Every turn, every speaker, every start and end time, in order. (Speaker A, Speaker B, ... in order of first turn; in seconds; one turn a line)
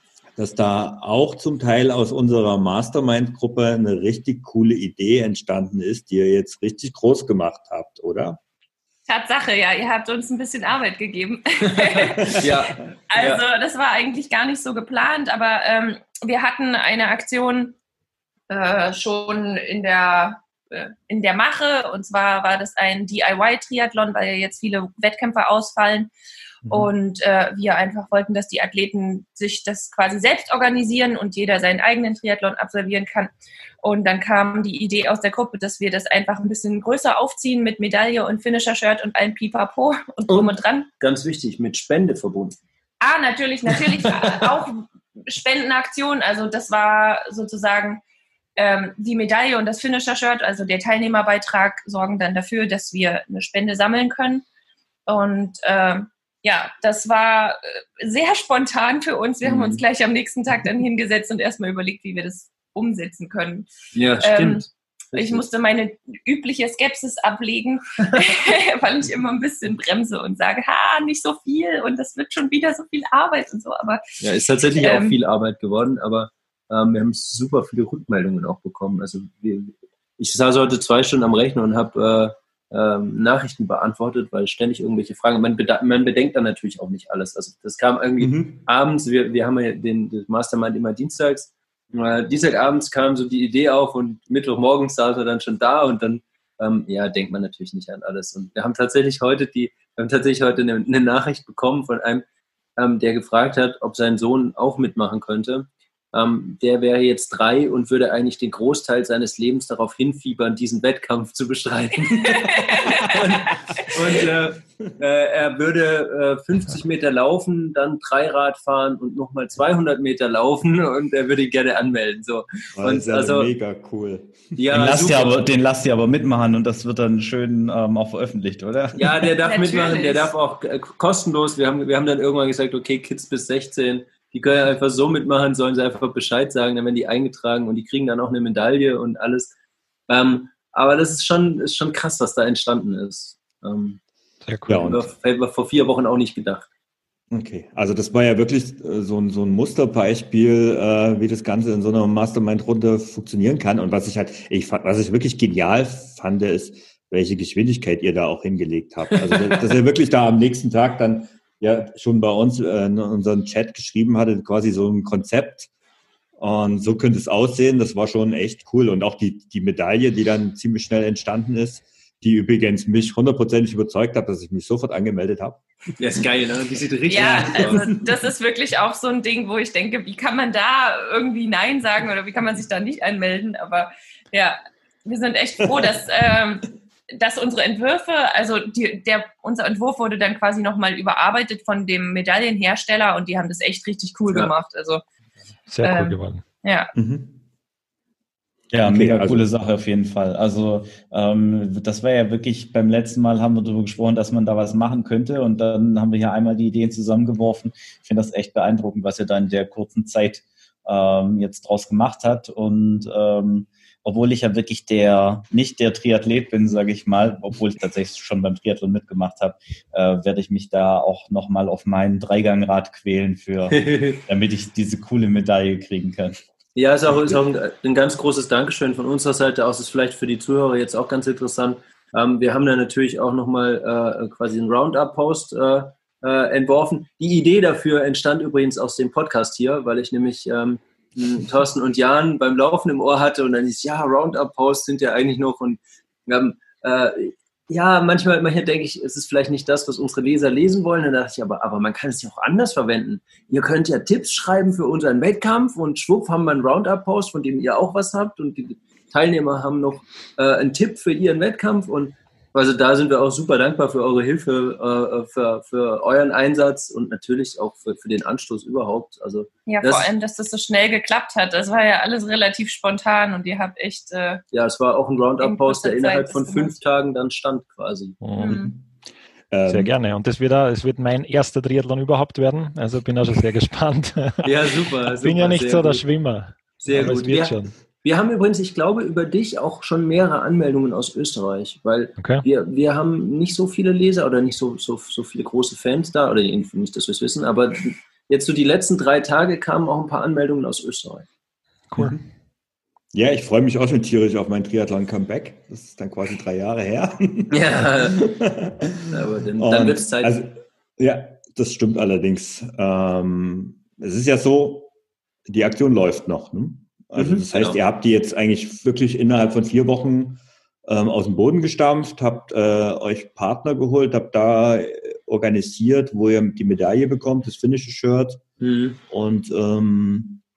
Speaker A: 0.4-8.4
Speaker B: 9.1-12.5
Speaker C: 11.8-13.4
Speaker B: 13.1-17.8
Speaker B: 18.5-26.1
Speaker A: 26.6-26.9
Speaker B: 26.7-33.3
Speaker B: 33.8-40.9
Speaker C: 40.3-42.6
Speaker B: 43.0-48.0
Speaker B: 48.6-54.5
Speaker B: 55.1-75.2
Speaker C: 63.9-65.5
Speaker C: 74.2-102.3
Speaker A: 88.2-88.6
Speaker C: 102.8-123.5
Speaker B: 112.4-113.2
Speaker A: 122.8-125.1
Speaker C: 124.6-125.4
Speaker D: 124.7-129.3
Speaker C: 128.9-139.5
Speaker B: 129.4-130.3
Speaker C: 140.1-144.0
Speaker E: 144.5-144.9
Speaker A: 144.7-145.1
Speaker C: 144.8-146.7
Speaker A: 147.3-165.7
Speaker A: 166.4-175.6
Speaker C: 176.0-178.0
Speaker B: 177.1-195.0
Speaker E: 195.7-196.4
Speaker B: 195.8-196.9
Speaker A: 196.9-197.4
Speaker D: 198.7-226.4
Speaker A: 198.8-199.5
Speaker C: 223.7-224.2
Speaker C: 226.8-270.1
Speaker B: 269.7-274.4
Speaker C: 274.5-278.2
Speaker B: 275.4-276.8
Speaker E: 278.2-278.7
Speaker B: 278.4-278.7
Speaker A: 278.4-278.8
Speaker A: 279.5-279.9
Speaker E: 279.7-287.7
Speaker C: 284.4-286.1
Speaker C: 286.8-301.3
Speaker E: 292.2-292.4
Speaker E: 301.9-302.2
Speaker A: 302.0-302.2
Speaker A: 303.1-314.9
Speaker C: 307.5-308.2
Speaker C: 309.1-310.4
Speaker A: 315.5-328.4
Speaker C: 317.2-317.8
Speaker C: 328.6-329.0
Speaker A: 329.1-330.4